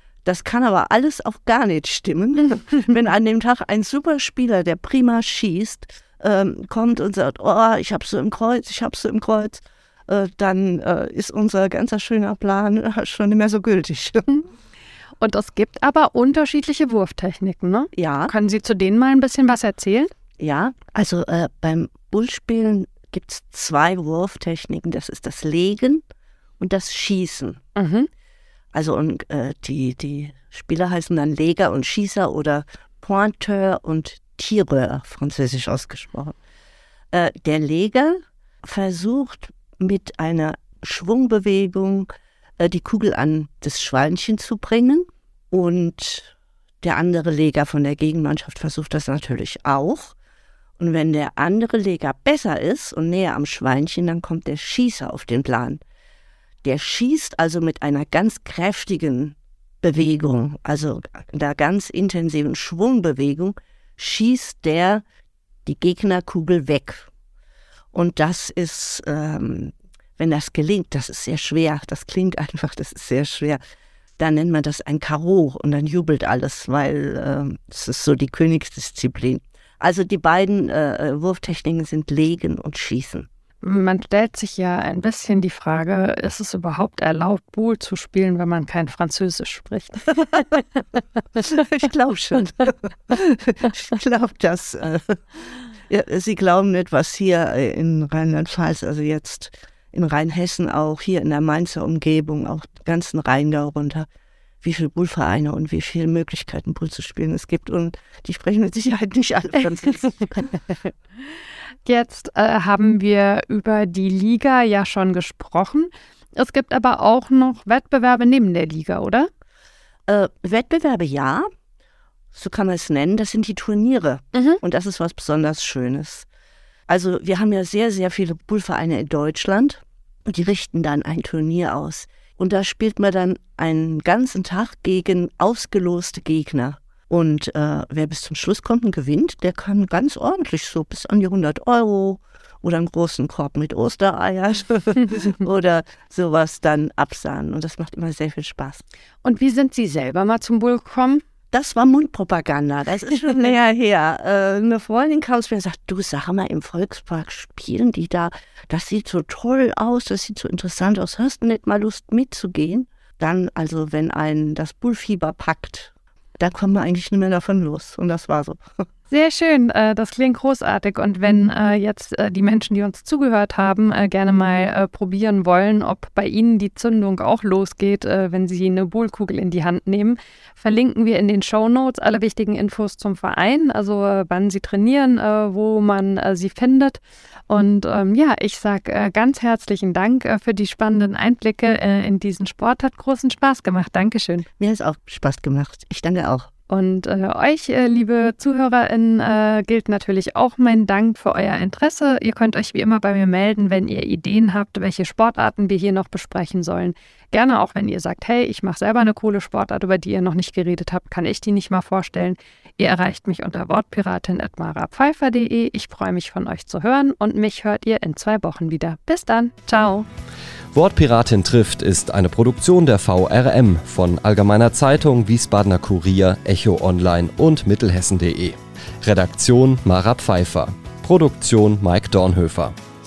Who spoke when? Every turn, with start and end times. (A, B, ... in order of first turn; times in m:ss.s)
0:00.2-0:14.4 A
0:15.2-0:20.1 B
0:18.0-0:18.3 A
0:20.4-0:26.0 A
0:26.6-0:27.6 A
0:27.8-0:28.1 B
0:28.7-0:36.4 A
0:37.1-0:50.2 A
0:50.8-0:55.8 A
0:56.6-1:05.0 A
1:05.7-1:07.1 A
1:07.9-1:13.6 A
1:14.2-1:23.3 A
1:23.6-1:30.6 B
1:31.4-1:44.1 A
1:44.6-1:50.6 A
1:51.9-1:59.3 B
2:00.1-2:01.5 A
2:02.3-2:06.3 A
2:04.3-2:04.6 B
2:06.9-2:28.8 A
2:29.2-2:31.2 B
2:31.5-2:48.7 A
2:49.1-3:14.5 B
3:14.6-3:16.5 A
3:16.7-3:40.1 B
3:40.7-3:52.7 C